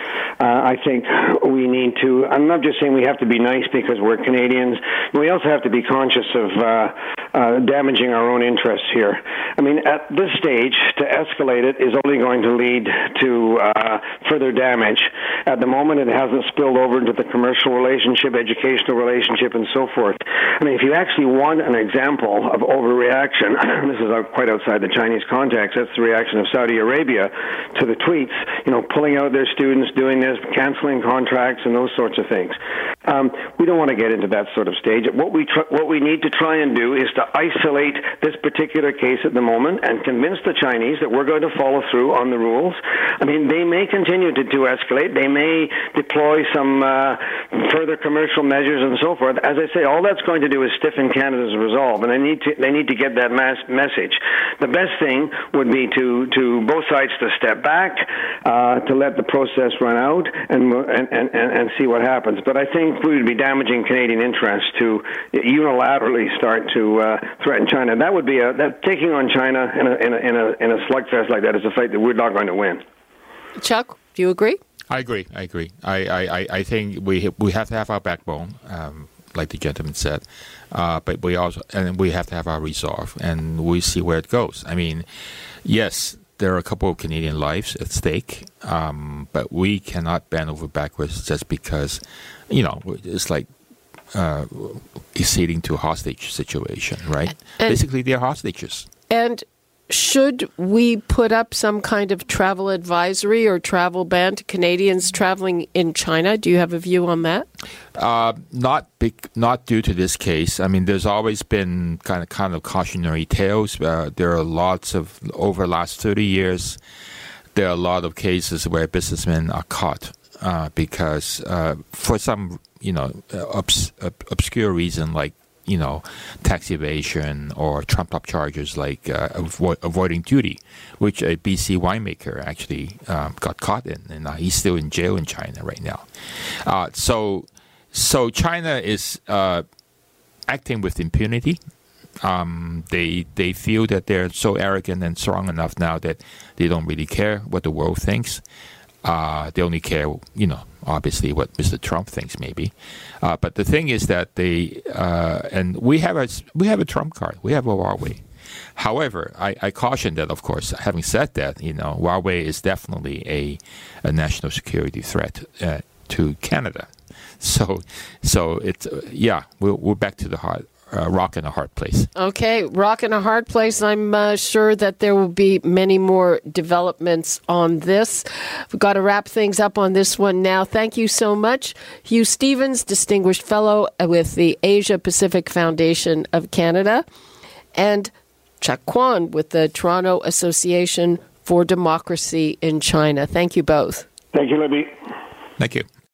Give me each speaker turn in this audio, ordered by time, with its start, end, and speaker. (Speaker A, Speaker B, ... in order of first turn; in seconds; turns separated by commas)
Speaker A: 0.4-72.8, Speaker B: 73.6-74.6, Speaker C: 74.9-85.1, Speaker C: 85.6-93.5, Speaker C: 94.1-98.9, Speaker B: 99.1-107.5, Speaker C: 108.0-116.8, Speaker C: 117.5-136.1, Speaker C: 136.6-139.7, Speaker C: 140.5-141.6, Speaker C: 142.2-148.4, Speaker C: 149.0-158.2, Speaker C: 158.8-172.1, Speaker B: 172.2-187.1, Speaker B: 187.8-194.1, Speaker A: 194.3-194.9, Speaker C: 195.6-195.9